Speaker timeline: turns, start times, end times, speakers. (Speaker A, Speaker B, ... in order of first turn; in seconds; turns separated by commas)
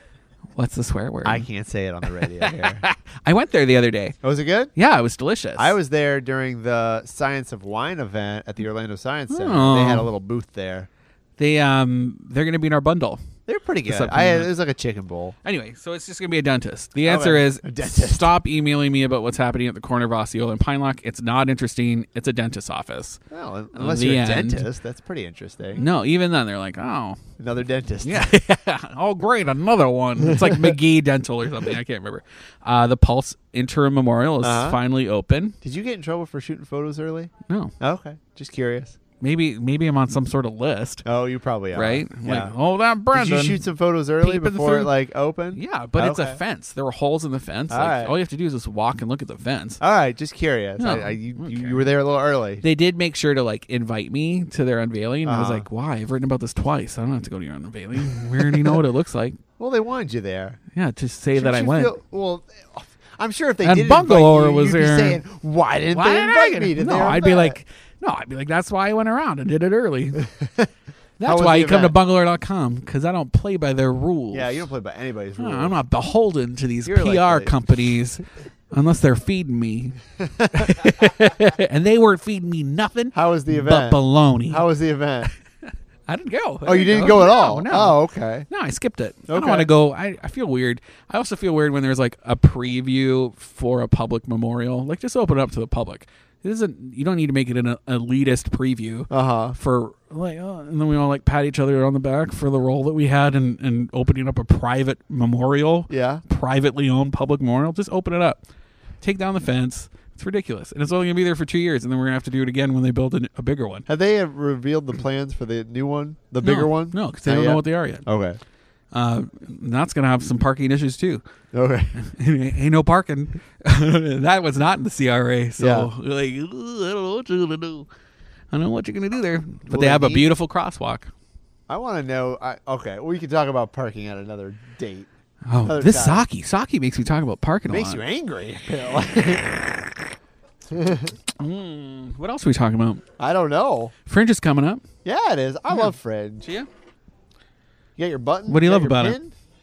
Speaker A: 0.6-1.5, Speaker B: 1.2-2.8, Speaker A: 2.2-4.2, Speaker B: 4.2-4.7, Speaker A: 4.7-5.8, Speaker B: 5.5-10.9, Speaker A: 9.3-10.1, Speaker A: 11.4-13.2, Speaker B: 13.5-15.3, Speaker A: 13.9-14.5, Speaker A: 15.4-23.2, Speaker B: 17.0-18.3, Speaker B: 23.3-25.8, Speaker A: 23.7-24.6, Speaker A: 25.8-27.2, Speaker B: 27.4-28.4, Speaker A: 28.0-35.5, Speaker B: 30.2-30.7, Speaker B: 34.4-34.8, Speaker B: 35.6-39.0, Speaker A: 37.5-37.7, Speaker A: 39.2-41.0, Speaker B: 41.0-42.5, Speaker A: 41.7-43.6, Speaker B: 43.1-46.4, Speaker A: 44.2-44.9, Speaker A: 45.5-49.8, Speaker B: 47.7-48.1, Speaker B: 49.8-52.6, Speaker A: 50.8-51.9, Speaker A: 52.6-59.4, Speaker B: 55.2-55.6, Speaker B: 58.3-58.8, Speaker B: 59.6-60.6, Speaker A: 60.7-61.9, Speaker B: 61.3-67.6, Speaker A: 63.6-65.2, Speaker A: 65.9-70.2, Speaker B: 70.2-70.7, Speaker A: 71.2-74.6, Speaker B: 71.2-71.9, Speaker B: 74.3-75.8, Speaker A: 75.4-80.0, Speaker B: 76.8-77.9, Speaker B: 80.2-80.8, Speaker A: 80.5-84.7, Speaker B: 83.1-85.3, Speaker A: 86.1-108.4, Speaker B: 86.6-88.5, Speaker B: 89.3-89.7, Speaker B: 99.1-99.5, Speaker B: 105.9-106.2, Speaker A: 109.0-113.9, Speaker B: 113.9-118.4, Speaker A: 116.4-118.0, Speaker A: 118.9-121.2, Speaker B: 121.5-122.0, Speaker A: 121.9-127.9, Speaker B: 125.6-125.9, Speaker A: 128.5-131.1, Speaker B: 129.7-130.3, Speaker B: 131.7-135.1, Speaker A: 135.4-138.0, Speaker B: 135.6-136.2, Speaker B: 137.7-139.8, Speaker B: 140.7-141.1, Speaker A: 141.3-143.0, Speaker B: 143.2-143.9, Speaker A: 144.1-144.8, Speaker B: 145.0-146.5, Speaker B: 148.0-149.3, Speaker A: 148.5-149.2